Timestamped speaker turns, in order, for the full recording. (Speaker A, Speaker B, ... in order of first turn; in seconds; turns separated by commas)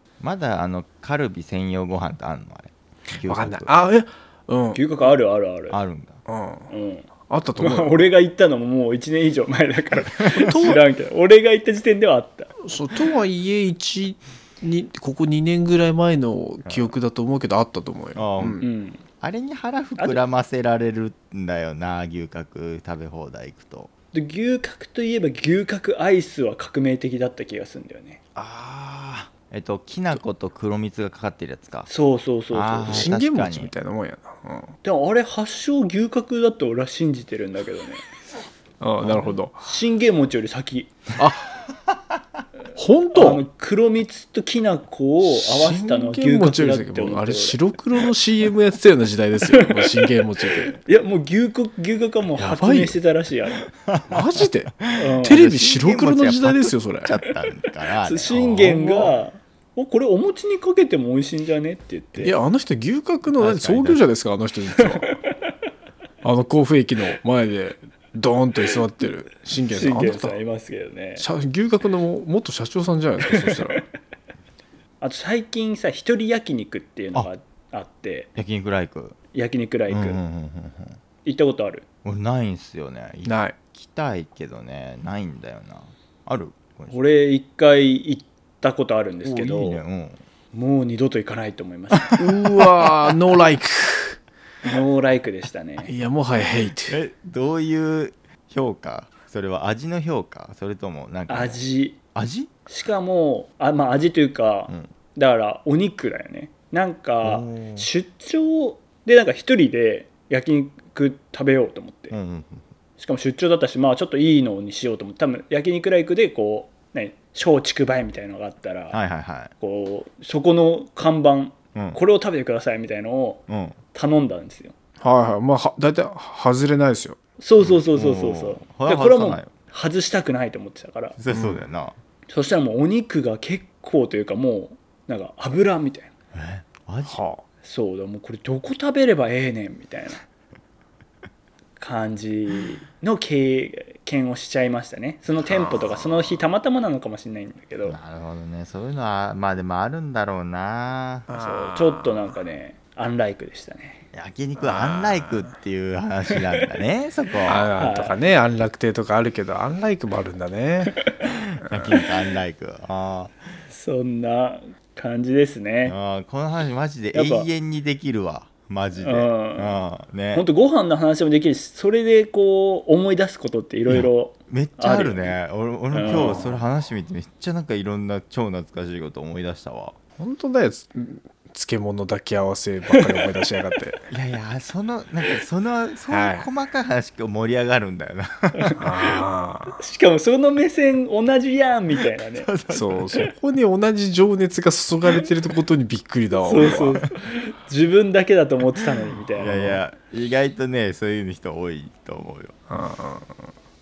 Speaker A: 0.2-3.7, Speaker B: 3.2-4.8, Speaker C: 4.7-5.8, Speaker A: 5.7-6.2, Speaker B: 6.3-6.7, Speaker C: 6.7-12.5, Speaker B: 7.3-8.1, Speaker B: 10.3-10.8, Speaker B: 12.6-18.6, Speaker A: 16.6-16.9, Speaker A: 18.1-18.6, Speaker C: 18.6-19.0, Speaker A: 19.2-23.9, Speaker C: 24.1-28.2, Speaker A: 28.4-31.9, Speaker C: 31.9-33.2, Speaker A: 32.5-33.7, Speaker B: 32.9-34.7, Speaker C: 34.8-38.0, Speaker B: 38.8-39.6, Speaker C: 39.6-41.0, Speaker B: 41.2-41.6, Speaker B: 42.7-43.4, Speaker C: 43.1-47.6, Speaker B: 45.2-50.8, Speaker C: 49.5-50.0, Speaker C: 50.6-53.6, Speaker B: 52.4-53.0, Speaker A: 53.9-59.1, Speaker B: 54.1-57.1, Speaker C: 54.9-55.4, Speaker C: 58.0-62.3, Speaker B: 62.2-65.1, Speaker A: 63.4-64.0, Speaker C: 64.8-65.1, Speaker B: 66.2-70.4, Speaker C: 69.6-71.2, Speaker B: 71.2-73.8, Speaker C: 73.3-73.8, Speaker C: 75.0-78.3, Speaker A: 78.3-79.2, Speaker C: 79.3-80.2, Speaker A: 79.9-81.0, Speaker C: 81.2-81.8, Speaker A: 82.0-87.0, Speaker B: 83.2-83.5, Speaker C: 86.9-89.8, Speaker A: 89.2-90.2, Speaker C: 90.5-92.2, Speaker A: 92.0-92.7, Speaker B: 92.2-94.2, Speaker C: 94.6-95.9, Speaker B: 95.8-97.0, Speaker A: 96.9-101.6, Speaker C: 101.3-102.0, Speaker A: 102.1-102.5, Speaker C: 102.7-112.1, Speaker A: 107.2-107.9, Speaker A: 112.1-112.7, Speaker C: 113.0-119.0, Speaker A: 118.9-119.5, Speaker C: 119.6-123.4, Speaker A: 123.5-123.8, Speaker C: 123.9-124.7, Speaker B: 125.0-127.2, Speaker C: 127.4-131.2, Speaker A: 127.6-129.5, Speaker A: 131.2-131.9, Speaker B: 131.3-131.6, Speaker C: 132.3-136.1, Speaker A: 136.3-137.2, Speaker B: 137.0-137.4, Speaker C: 137.6-140.2, Speaker C: 141.8-148.0, Speaker A: 147.8-151.3, Speaker B: 151.3-152.2, Speaker C: 151.3-154.0, Speaker A: 154.1-157.7, Speaker B: 154.6-155.5, Speaker B: 157.4-161.0, Speaker C: 157.7-158.2, Speaker A: 161.2-163.4, Speaker B: 161.6-161.9, Speaker C: 163.7-165.9, Speaker A: 165.8-170.4, Speaker C: 167.1-167.5, Speaker C: 168.9-169.8, Speaker C: 170.3-175.3, Speaker A: 173.9-179.9, Speaker C: 175.9-176.5, Speaker B: 176.0-176.6, Speaker B: 180.2-184.0, Speaker C: 182.9-183.4, Speaker A: 184.1-188.8, Speaker B: 186.1-186.5, Speaker C: 188.6-188.8, Speaker B: 188.8-189.8, Speaker C: 189.7-192.5, Speaker A: 192.4-193.2, Speaker B: 192.7-197.0, Speaker C: 196.4-199.8, Speaker A: 199.4-202.6, Speaker B: 199.5-199.7, Speaker B: 202.7-203.5